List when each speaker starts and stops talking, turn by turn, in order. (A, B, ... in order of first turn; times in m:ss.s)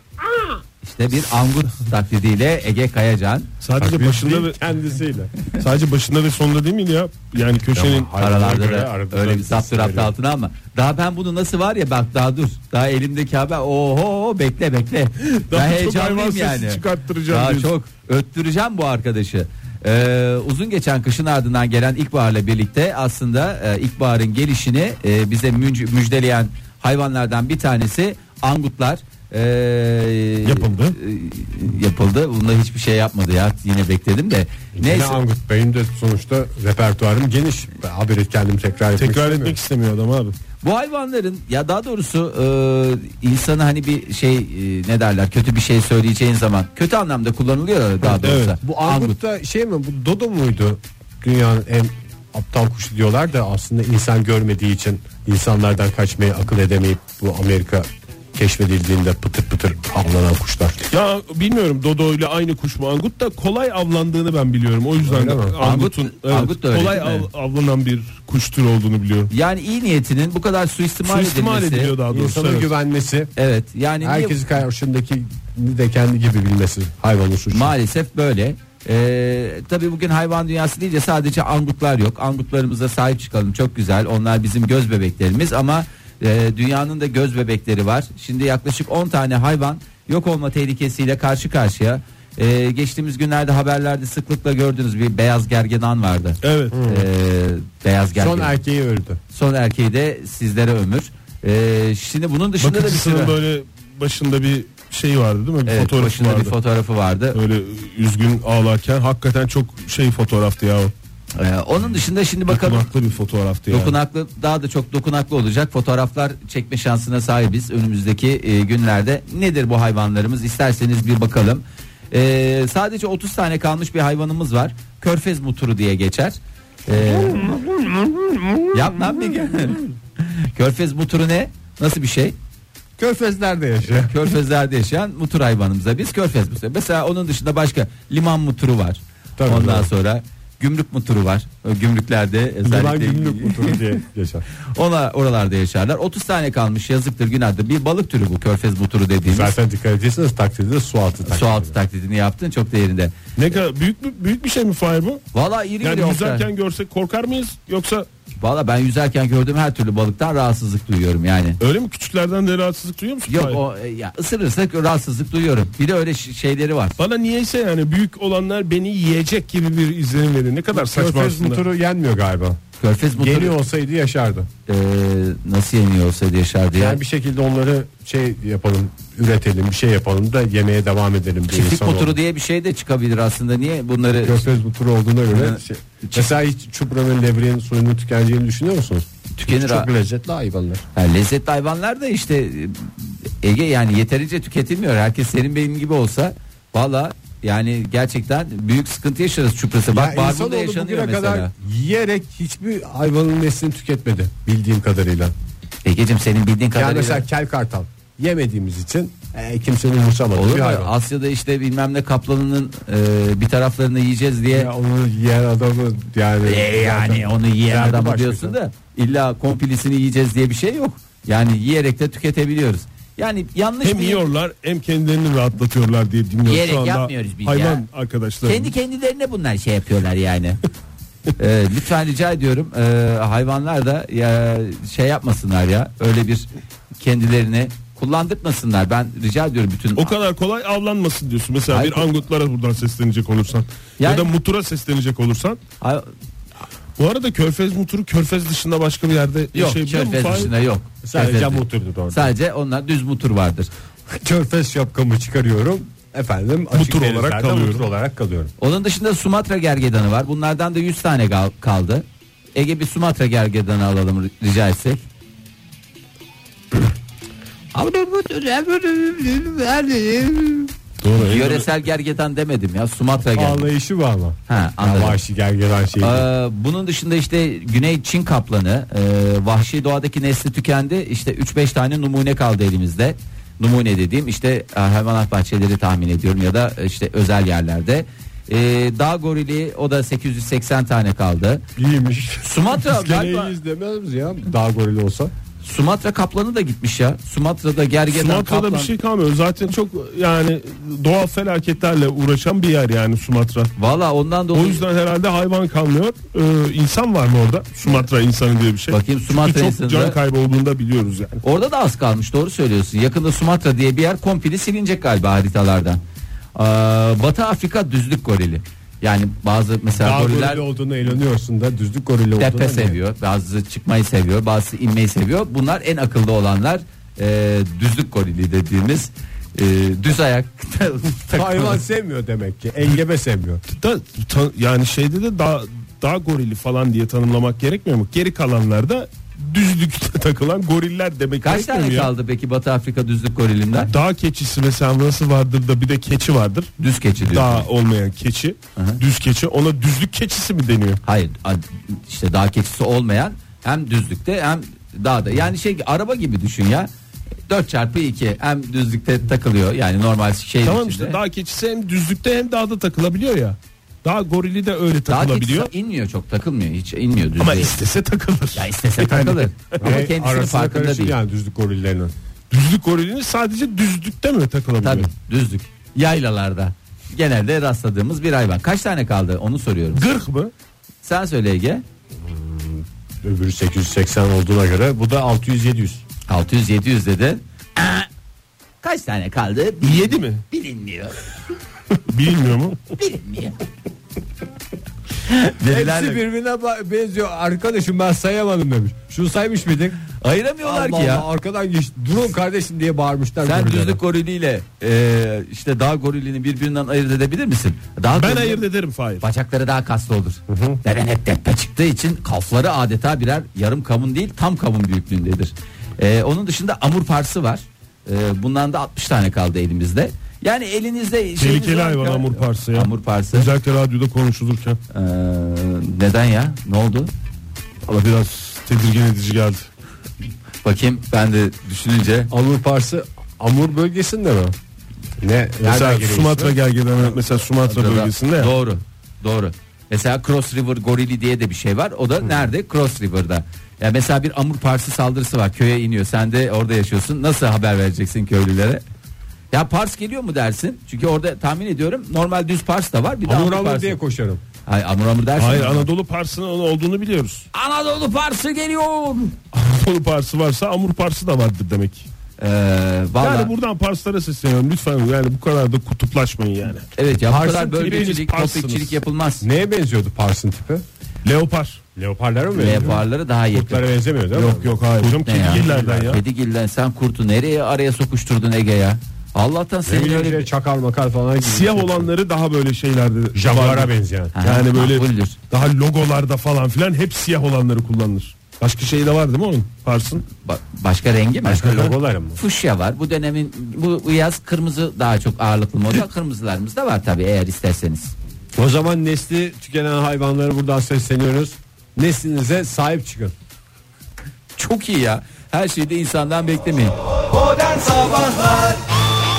0:00.8-0:03.5 A
0:03.6-0:04.6 B
0:03.8-0:05.3 C
0:05.6-0:08.1 B
0:07.7-0:10.1 C
0:08.2-0:35.2 A
0:15.3-0:17.7 B
0:30.4-0:31.0 B
0:34.8-0:39.6 C
0:39.0-0:40.4 B
0:40.6-0:49.2 A
0:48.2-0:48.6 B
0:48.6-1:00.8 C
1:00.9-1:09.3 B
1:05.0-1:05.6 C
1:05.6-1:07.3 A
1:09.3-1:11.9 A
1:11.0-1:12.7 B
1:12.1-1:13.3 C
1:13.4-1:14.4 A
1:14.0-1:17.7 C
1:17.5-1:38.6 A
1:36.4-1:36.8 B
1:36.7-1:37.1 C
1:38.2-1:39.2 C
1:39.3-1:43.4 A
1:42.6-1:46.6 B
1:45.7-1:47.4 A
1:47.3-1:50.9 B
1:51.4-1:52.9 A
1:52.5-1:54.0 B
1:53.7-2:07.5 A
2:07.0-2:09.3 C
2:08.7-2:12.4 A
2:13.0-2:14.2 C
2:13.9-2:23.9 A
2:19.4-2:19.9 C
2:22.6-2:24.5 C
2:24.7-2:29.5 A
2:29.3-2:31.8 C
2:31.3-2:33.1 A
2:33.4-2:35.2 B
2:35.3-2:36.5 A
2:35.8-2:38.1 B
2:38.4-2:41.6 A
2:41.6-2:43.6 B
2:43.3-2:47.0 A
2:47.0-2:51.6 B
2:50.7-2:52.6 C
2:52.8-2:53.6 A
2:53.2-2:54.5 C
2:54.7-2:57.0 A
2:56.8-3:02.2 C
3:01.5-3:04.4 A
3:04.2-3:10.8 C
3:05.3-3:06.3 A
3:09.4-3:09.9 A
3:11.0-3:21.5 A
3:19.9-3:25.3 C
3:25.8-3:27.3 A
3:26.8-3:30.9 C
3:30.3-3:34.7 A
3:34.5-3:38.6 C
3:36.4-3:44.2 A
3:43.8-3:48.7 B
3:46.5-3:47.8 A
3:48.4-3:50.6 A
3:51.4-3:56.5 A
3:57.0-4:00.1 A
4:00.0-4:05.6 B
4:01.7-4:02.1 A
4:04.0-4:04.3 A
4:05.8-4:06.1 A
4:07.0-4:10.5 B
4:09.5-4:13.7 A
4:11.0-4:12.3 C
4:14.1-4:18.5 C
4:16.7-4:17.8 B
4:18.6-4:25.1 A
4:27.7-4:33.7 A
4:31.0-4:31.7 B
4:33.3-4:36.3 C
4:34.5-4:35.2 A
4:36.0-4:51.6 A
4:51.8-4:55.3 C
4:52.4-4:53.5 A
4:55.6-4:58.9 A
4:58.1-5:03.7 B
5:03.8-5:04.8 A
5:04.5-5:11.4 B
5:08.9-5:10.2 A
5:11.4-5:16.0 A
5:16.6-5:20.6 A
5:20.0-5:23.0 C
5:22.4-5:31.8 A
5:31.3-5:33.6 C
5:33.7-5:42.1 B
5:41.4-5:43.9 A
5:43.9-5:46.7 B
5:46.8-5:47.7 A
5:47.2-5:51.0 B
5:51.0-5:56.9 A
5:57.5-6:01.2 A
6:00.6-6:05.7 B
6:05.1-6:07.7 A
6:07.4-6:10.0 B
6:08.6-6:11.2 A
6:09.8-6:12.1 C
6:12.5-6:15.1 B
6:14.8-6:20.1 A
6:20.0-6:20.5 B
6:21.0-6:21.8 A
6:22.2-6:26.0 C
6:26.3-6:28.1 A
6:28.8-6:31.2 A
6:29.8-6:30.4 B
6:32.1-6:32.8 B
6:33.0-6:33.6 A
6:35.2-6:36.2 A
6:35.6-6:40.0 C
6:40.2-6:41.3 A
6:40.6-6:44.0 C
6:43.4-6:48.6 A
6:48.2-6:49.2 B
6:49.2-7:03.5 A
6:50.5-6:50.8 C
7:01.4-7:04.8 B
7:04.9-7:07.1 A
7:07.9-7:09.7 B
7:10.6-7:12.3 A
7:12.3-7:14.6 C
7:15.2-7:16.6 C
7:15.6-7:18.5 B
7:17.7-7:28.8 A
7:29.5-7:34.0 A
7:33.2-7:34.4 C
7:34.7-7:35.9 A
7:35.4-7:37.5 B
7:37.5-7:39.4 A
7:39.5-7:42.1 B
7:42.4-7:43.5 A
7:43.2-7:46.9 B
7:47.0-7:49.4 A
7:47.3-7:48.1 C
7:47.7-7:49.0 B
7:49.4-7:50.8 C
7:51.2-7:51.8 B
7:52.0-7:56.2 C
7:52.6-7:53.8 A
7:54.3-7:56.2 B
7:55.2-8:00.5 A
7:59.9-8:02.1 C
8:01.4-8:10.2 B
8:03.4-8:04.3 C
8:04.3-8:05.4 A
8:10.4-8:11.8 A
8:11.4-8:12.4 C
8:11.6-8:11.9 B
8:12.4-8:18.1 A
8:18.6-8:23.3 C
8:24.6-8:28.8 A